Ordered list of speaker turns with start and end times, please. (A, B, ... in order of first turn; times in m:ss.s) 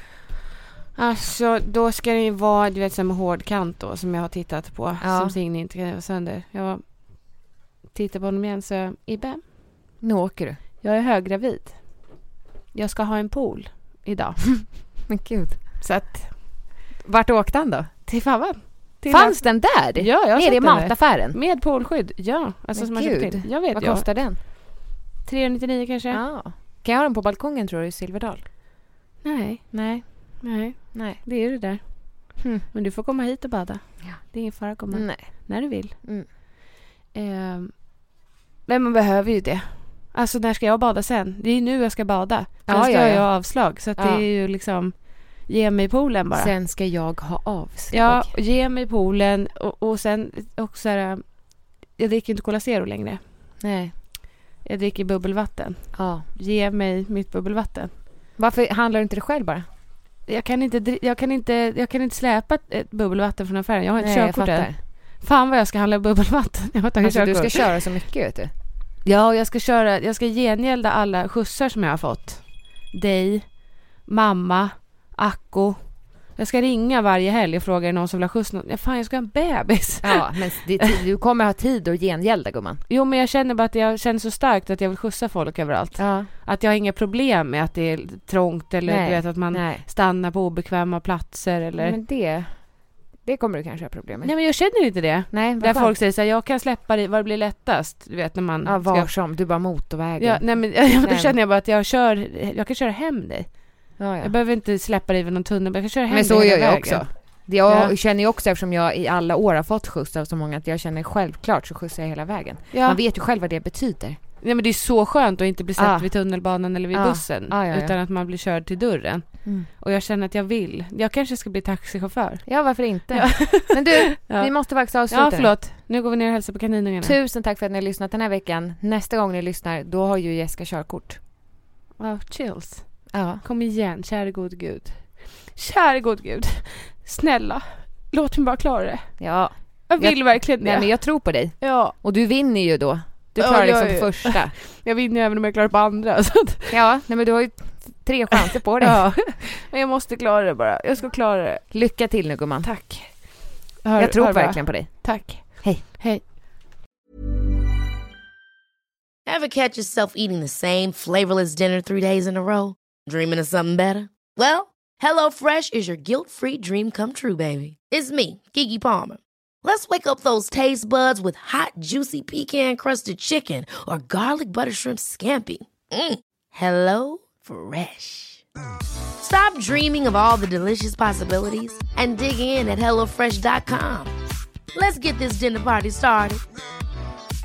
0:01.0-0:09.5 A
0:05.0-0:05.4 B
0:10.0-0:10.6 B
0:10.8-0:12.1 A
0:12.7-0:14.7 A
0:14.6-0:15.6 B
0:15.8-0:16.6 A
0:17.0-0:17.9 B
0:18.1-0:24.6 A
0:19.1-0:21.4 B
0:22.8-0:24.4 B
0:25.2-0:26.2 A
0:26.1-0:28.4 B
0:29.2-0:36.0 A
0:29.7-0:31.2 B
0:32.4-0:32.7 B
0:34.0-0:36.3 B
0:37.1-0:38.1 A
0:38.7-0:46.5 A
0:42.7-0:44.2 B
0:46.4-0:48.3 B
0:47.9-0:53.2 A
0:53.6-0:53.9 B
0:54.6-0:57.9 A
0:55.9-0:56.2 B
0:58.4-0:59.7 B
1:00.3-1:07.7 A
1:04.0-1:04.8 B
1:07.0-1:08.5 B
1:09.0-1:21.0 A
1:20.0-1:22.8 B
1:22.9-1:32.0 A
1:26.0-1:26.3 B
1:28.8-1:29.9 B
1:31.8-1:34.4 B
1:34.2-1:39.1 A
1:35.3-1:36.0 B
1:38.6-1:41.3 B
1:40.2-1:47.0 A
1:44.0-1:44.3 B
1:46.1-1:54.2 B
1:47.7-1:47.9 A
1:52.7-1:53.0 A
1:54.4-2:07.2 A
1:55.8-1:56.1 B
1:56.9-1:57.9 B
2:02.5-2:05.5 B
2:07.0-2:11.2 B
2:12.0-2:19.2 A
2:13.1-2:13.4 B
2:19.2-2:24.6 B
2:19.9-2:22.0 A
2:23.4-2:26.8 A
2:26.7-2:29.0 B
2:28.8-2:31.7 A
2:31.7-2:32.7 B
2:32.6-2:36.2 A
2:34.0-2:35.8 B
2:39.3-2:58.4 C
2:59.2-3:04.1 C
3:04.7-3:06.4 C